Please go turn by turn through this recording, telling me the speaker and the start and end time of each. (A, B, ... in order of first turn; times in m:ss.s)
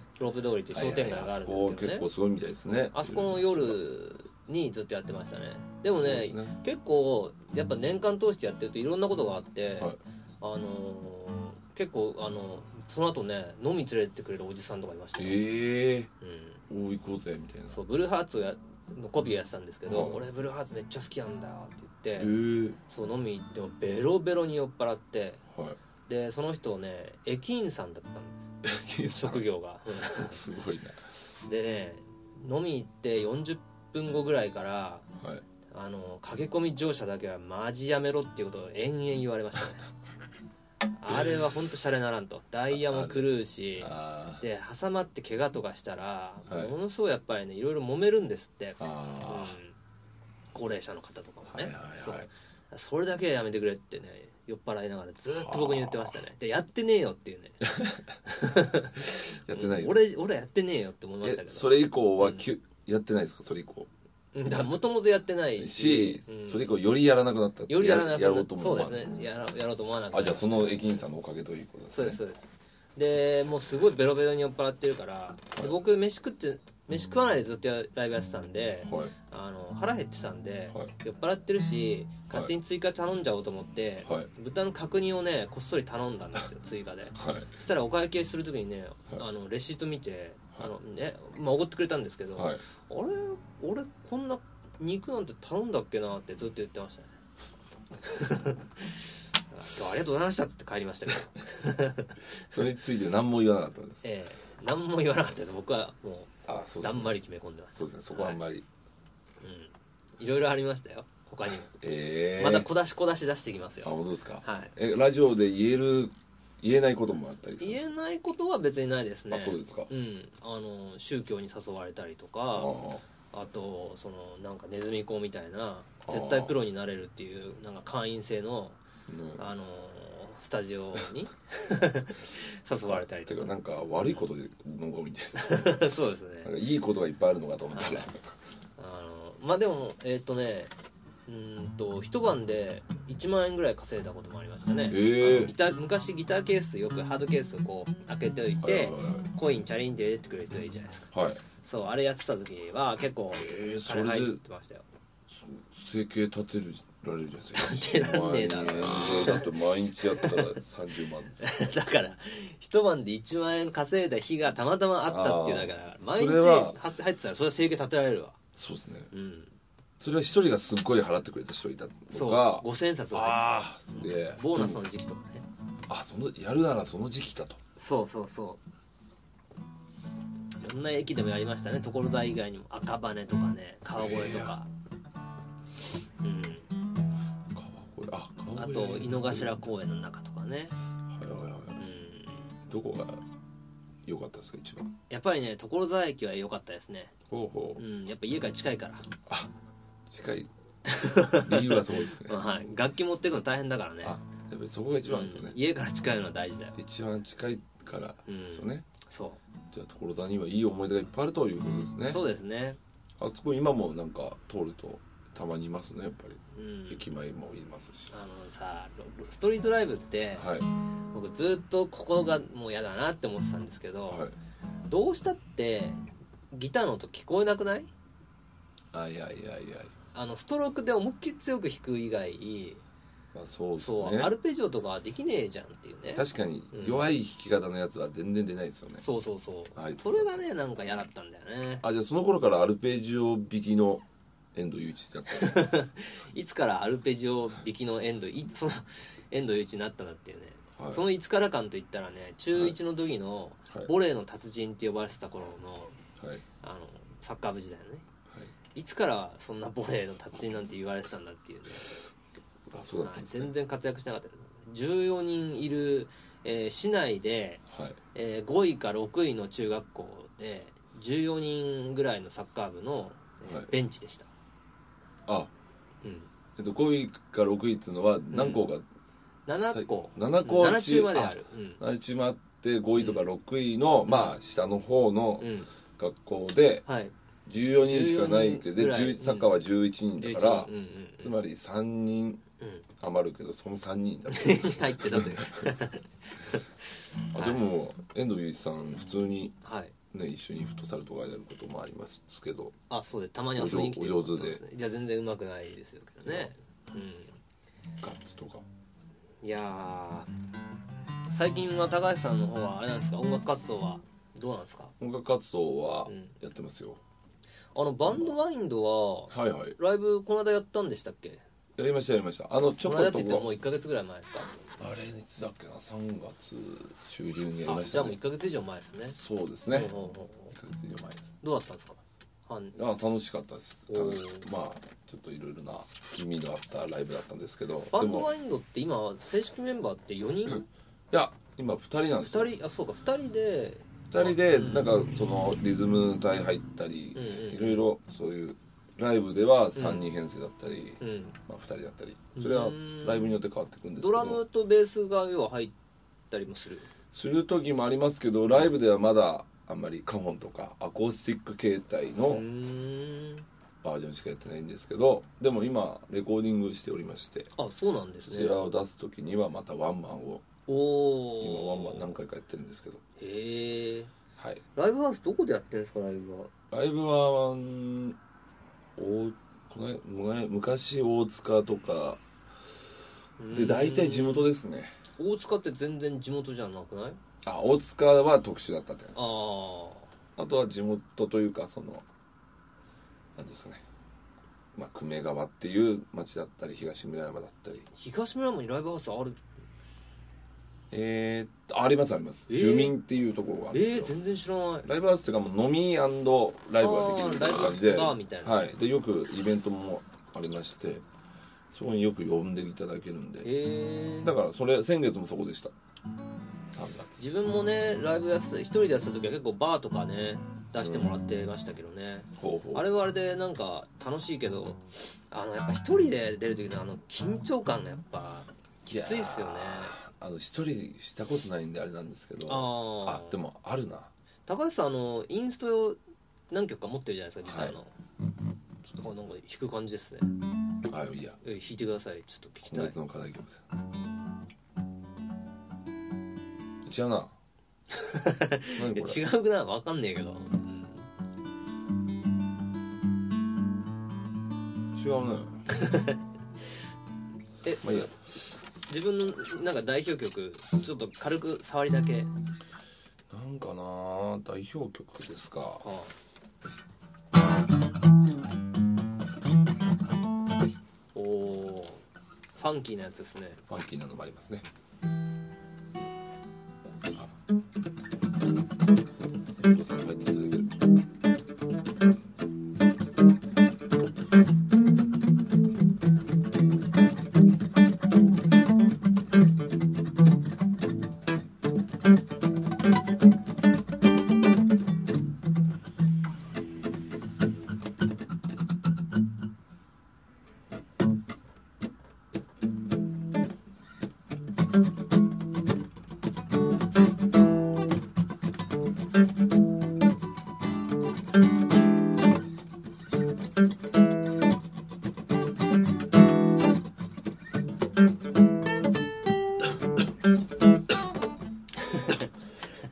0:00.2-0:02.1 A
0:00.7-0:03.8 B
0:02.9-0:15.4 A
0:05.9-0:06.6 B
0:15.2-0:16.1 B
0:16.2-0:16.6 A
0:16.7-0:17.8 B
0:17.7-0:22.3 A
0:19.9-0:20.2 B
0:22.2-0:22.8 B
0:22.9-0:25.4 A
0:25.5-0:25.8 B
0:26.1-0:28.4 A
0:28.6-0:29.5 B
0:29.1-0:30.4 A
0:30.0-0:31.1 B
0:31.4-0:35.1 A
0:35.2-0:35.4 B
0:35.7-0:39.8 A
0:41.0-0:49.8 A
0:42.7-0:44.4 B
0:46.5-0:46.7 B
0:48.8-0:49.6 B
0:50.5-0:57.7 A
0:51.5-0:52.3 B
0:55.4-0:56.2 B
0:57.6-0:58.2 B
0:58.2-1:02.4 A
0:59.0-1:00.0 B
1:01.2-1:03.9 B
1:04.3-1:06.8 A
1:05.6-1:09.2 B
1:07.7-1:11.0 A
1:10.1-1:12.2 B
1:11.9-1:37.2 A
1:18.9-1:19.1 B
1:24.0-1:24.3 B
1:27.2-1:27.5 B
1:32.4-1:32.6 B
1:38.0-1:42.4 A
1:42.4-1:44.0 B
1:44.0-1:48.4 A
1:46.5-1:47.2 B
1:47.8-1:48.7 B
1:49.4-1:51.7 A
1:51.5-1:52.7 B
1:52.4-1:54.8 A
1:53.8-1:57.8 B
1:57.6-2:02.8 A
1:59.3-1:59.9 B
2:02.5-2:03.0 B
2:03.3-2:08.8 A
2:06.0-2:06.6 B
2:09.1-2:09.4 B
2:09.4-2:13.6 A
2:12.8-2:15.8 B
2:15.4-2:16.5 A
2:16.4-2:18.3 B
2:17.7-2:18.1 A
2:18.8-2:20.7 A
2:21.3-2:31.1 A
2:24.9-2:25.6 B
2:28.6-2:29.3 B
2:31.1-2:31.4 B
2:31.6-2:34.8 A
2:33.3-2:34.4 B
2:35.3-2:41.5 B
2:37.6-2:40.5 A
2:41.4-2:48.4 A
2:45.1-2:46.8 B
2:48.5-2:49.1 B
2:49.1-2:49.5 A
2:50.0-2:54.8 B
2:52.1-2:55.4 A
2:55.9-2:57.6 B
2:57.8-2:58.6 A
3:00.6-3:04.7 A
3:03.9-3:04.6 B
3:06.2-3:06.7 A
3:07.5-3:09.6 B
3:08.6-3:10.8 A
3:11.1-3:11.8 B
3:11.8-3:12.5 A
3:12.7-3:13.2 B
3:14.0-3:14.9 B
3:15.1-3:17.2 A
3:17.3-3:17.8 B
3:17.8-3:19.1 A
3:19.3-3:19.5 B
3:20.1-3:20.5 B
3:20.8-3:24.2 A
3:21.2-3:22.4 B
3:24.0-3:25.6 B
3:25.0-3:26.8 A
3:26.8-3:28.9 B
3:28.3-3:29.4 A
3:29.7-3:32.2 B
3:32.1-3:32.8 A
3:33.2-3:38.1 B
3:36.6-3:37.1 A
3:38.1-3:40.5 A
3:40.4-3:40.7 B
3:41.1-3:44.2 A
3:44.1-3:44.3 B
3:44.9-3:46.0 A
3:46.5-3:47.9 A
3:48.9-3:49.9 B
3:50.1-3:52.8 A
3:53.3-3:54.3 B
3:53.8-3:57.1 A
3:56.1-3:59.0 B
3:59.0-4:01.8 A
3:59.8-4:00.4 B
4:01.8-4:04.0 B
4:04.6-4:05.7 B
4:05.3-4:16.0 A
4:10.8-4:11.0 B
4:16.2-4:16.4 B
4:16.6-4:18.0 A
4:18.8-4:22.0 A
4:22.7-4:23.5 B
4:23.0-4:34.3 A
4:27.7-4:28.0 B
4:33.4-4:33.7 B
4:35.3-4:35.5 B
4:36.0-4:36.3 A
4:36.6-4:38.8 B
4:38.3-4:38.6 A
4:39.5-4:41.8 A
4:39.7-4:46.8 B
4:43.0-4:43.2 A
4:44.1-4:44.4 A
4:45.4-4:45.7 A
4:46.9-4:49.5 A
4:47.5-4:52.4 B
4:50.2-4:51.3 A
4:52.6-4:52.9 A
4:53.0-4:55.8 B
4:54.3-4:56.7 A
4:57.3-4:57.6 A
4:57.3-4:59.6 B
4:59.6-5:00.0 A
5:00.1-5:02.7 B
5:02.9-5:07.4 A
5:03.6-5:04.6 B
5:06.2-5:06.5 B
5:08.0-5:08.7 B
5:09.4-5:10.3 A
5:11.3-5:14.9 A
5:15.0-5:17.0 B
5:16.1-5:16.3 A
5:17.8-5:21.4 A
5:19.3-5:19.8 B
5:21.8-5:23.5 B
5:22.8-5:24.6 A
5:24.7-5:28.2 B
5:27.6-5:29.2 A
5:29.0-5:30.0 B
5:29.7-5:30.6 A
5:30.5-5:31.3 B
5:31.4-5:32.8 A
5:32.8-5:38.3 B
5:33.9-5:34.5 A
5:37.9-5:40.7 A
5:41.1-5:42.5 B
5:42.3-5:44.9 A
5:44.1-5:54.4 B
5:47.2-5:47.9 A
5:49.8-5:50.1 A
5:51.0-5:51.4 A
5:52.4-5:53.4 A
5:54.0-5:55.8 A
5:56.3-5:56.9 A
5:57.1-6:02.4 B
6:02.3-6:03.5 A
6:03.8-6:07.5 B
6:07.6-6:08.6 A
6:08.2-6:10.4 B
6:10.7-6:12.1 A
6:11.4-6:13.0 B
6:13.2-6:14.1 A
6:14.4-6:14.6 B
6:14.8-6:16.5 A
6:16.7-6:18.2 B
6:19.0-6:22.2 B
6:23.4-6:24.5 A
6:23.5-6:24.9 B
6:25.2-6:27.2 A
6:27.4-6:29.3 B
6:29.2-6:30.1 A
6:30.4-6:32.1 B
6:33.4-6:33.8 B
6:34.7-6:37.9 B
6:38.0-6:39.4 A
6:40.9-6:44.2 B
6:42.5-6:43.0 A
6:43.7-6:44.9 A
6:44.8-6:51.0 B
6:46.8-6:48.6 A
6:51.7-6:53.5 B
6:53.4-6:54.3 A
6:54.2-6:55.7 B
6:56.7-6:57.2 B
6:57.2-7:10.0 A
7:00.8-7:01.1 B
7:02.4-7:03.0 B
7:08.9-7:14.1 B
7:12.5-7:13.4 A
7:14.5-7:16.0 A
7:16.5-7:17.9 A
7:17.4-7:17.8 B
7:18.9-7:20.3 A
7:20.9-7:21.4 B
7:21.4-7:23.0 A
7:22.7-7:23.6 B
7:26.8-7:27.4 B
7:27.9-7:31.1 A
7:28.8-7:29.2 B
7:34.9-7:35.6 B
7:35.7-7:36.2 A
7:37.6-7:42.3 A
7:37.8-7:38.2 B
7:43.3-7:45.9 B
7:45.8-7:46.1 A
7:51.2-7:52.0 A
7:52.6-7:53.6 A
7:53.7-7:54.7 B
7:59.6-8:00.8 B
8:41.9-8:42.3 A